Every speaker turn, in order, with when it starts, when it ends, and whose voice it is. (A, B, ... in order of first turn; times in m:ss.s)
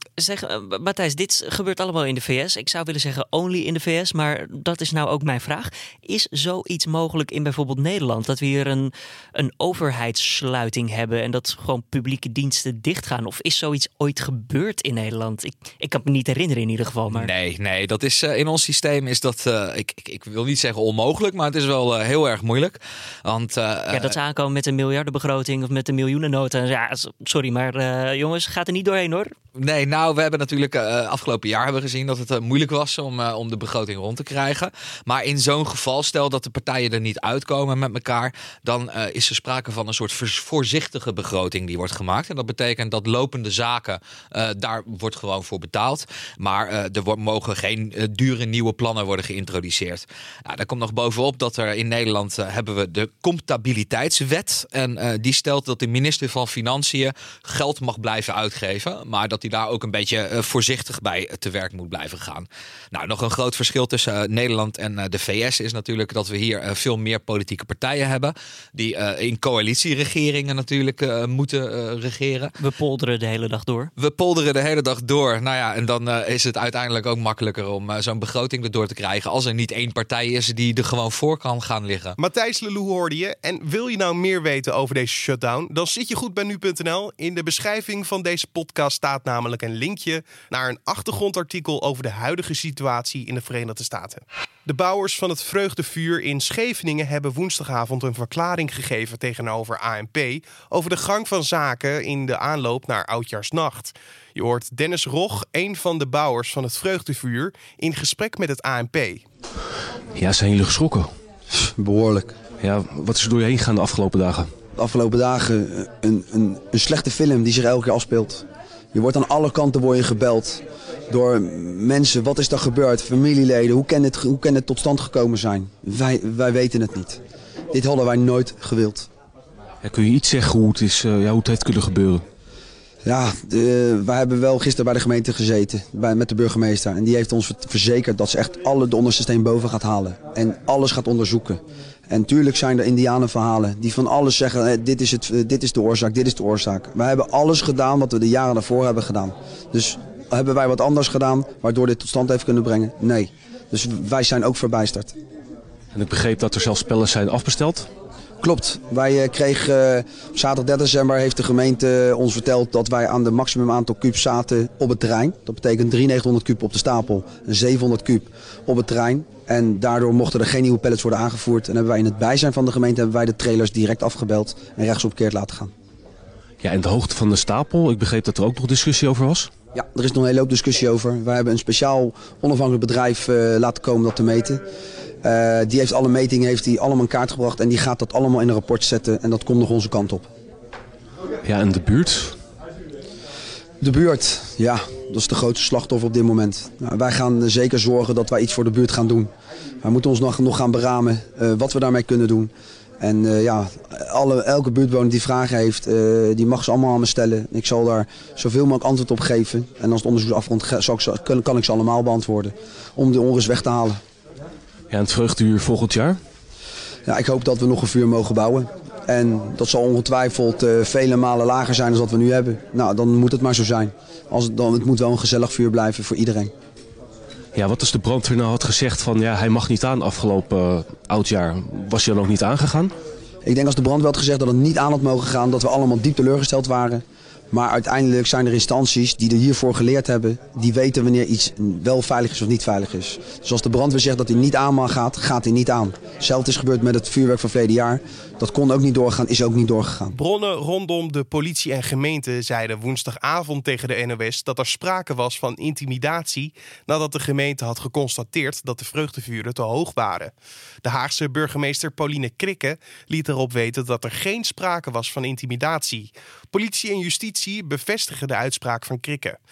0:00.2-0:17.3 A
0:17.1-0:24.1 B
0:23.9-0:29.3 A
0:29.6-1:12.5 B
1:12.6-1:13.9 A
1:14.0-1:22.2 B
1:22.2-1:49.2 C
1:50.1-1:51.1 D
1:51.5-1:52.3 E
1:52.6-1:54.5 D
1:54.8-2:07.2 E
2:07.7-2:09.1 E
2:09.8-2:12.2 D
2:13.0-2:35.1 E
2:35.9-2:37.9 D
2:38.4-2:55.7 E
2:56.6-2:59.5 D
2:59.7-3:04.6 E
3:05.2-3:10.3 E
3:11.4-3:12.4 D
3:13.8-3:19.3 E
3:19.8-3:34.0 E
3:34.9-3:36.2 D
3:37.1-3:46.5 E
3:47.5-3:52.9 D
3:53.4-4:10.2 E
4:10.1-4:29.4 C